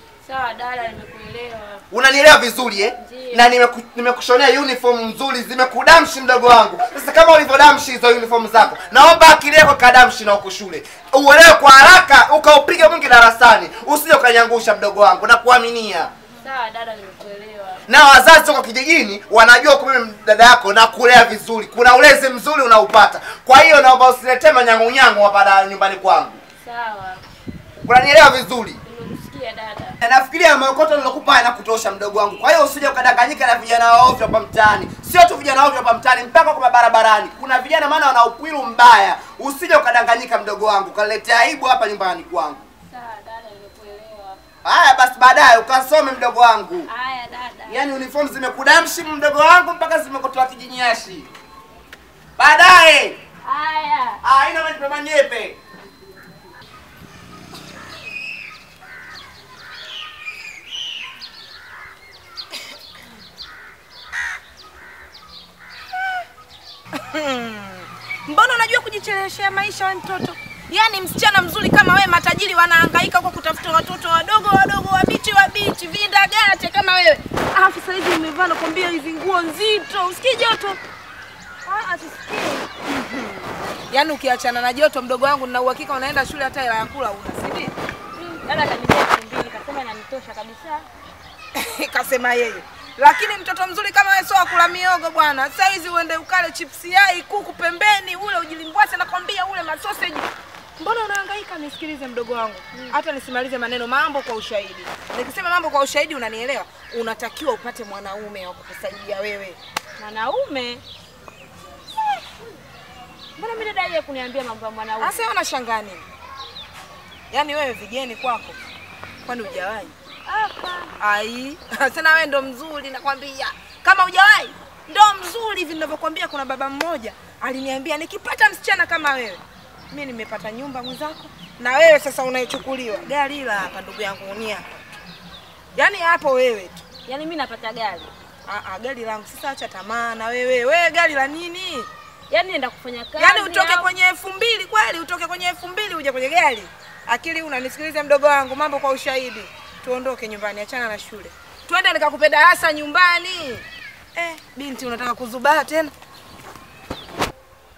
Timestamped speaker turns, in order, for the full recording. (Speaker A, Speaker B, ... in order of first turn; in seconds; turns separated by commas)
Speaker A: 0.2-1.8, Speaker B: 1.9-16.1, Speaker A: 3.0-3.5, Speaker A: 16.4-17.8, Speaker B: 17.9-26.4, Speaker A: 26.6-27.2, Speaker B: 27.8-28.8, Speaker A: 28.8-30.0, Speaker B: 30.0-42.6, Speaker A: 42.9-44.4, Speaker B: 44.6-46.9, Speaker A: 46.9-47.8, Speaker B: 47.7-51.3, Speaker B: 52.4-53.1, Speaker A: 53.4-54.2, Speaker B: 54.2-55.6, Speaker C: 66.9-80.8, Speaker A: 81.7-82.7, Speaker C: 82.9-87.7, Speaker A: 88.1-90.8, Speaker C: 91.5-109.6, Speaker A: 110.0-110.8, Speaker A: 113.4-115.2, Speaker C: 115.0-116.0, Speaker C: 117.3-118.6, Speaker C: 119.2-119.9, Speaker A: 120.2-120.9, Speaker C: 121.0-134.8, Speaker C: 135.8-136.8, Speaker A: 137.1-138.1, Speaker C: 138.5-141.9, Speaker A: 142.3-143.9, Speaker C: 143.2-153.6, Speaker C: 154.2-155.9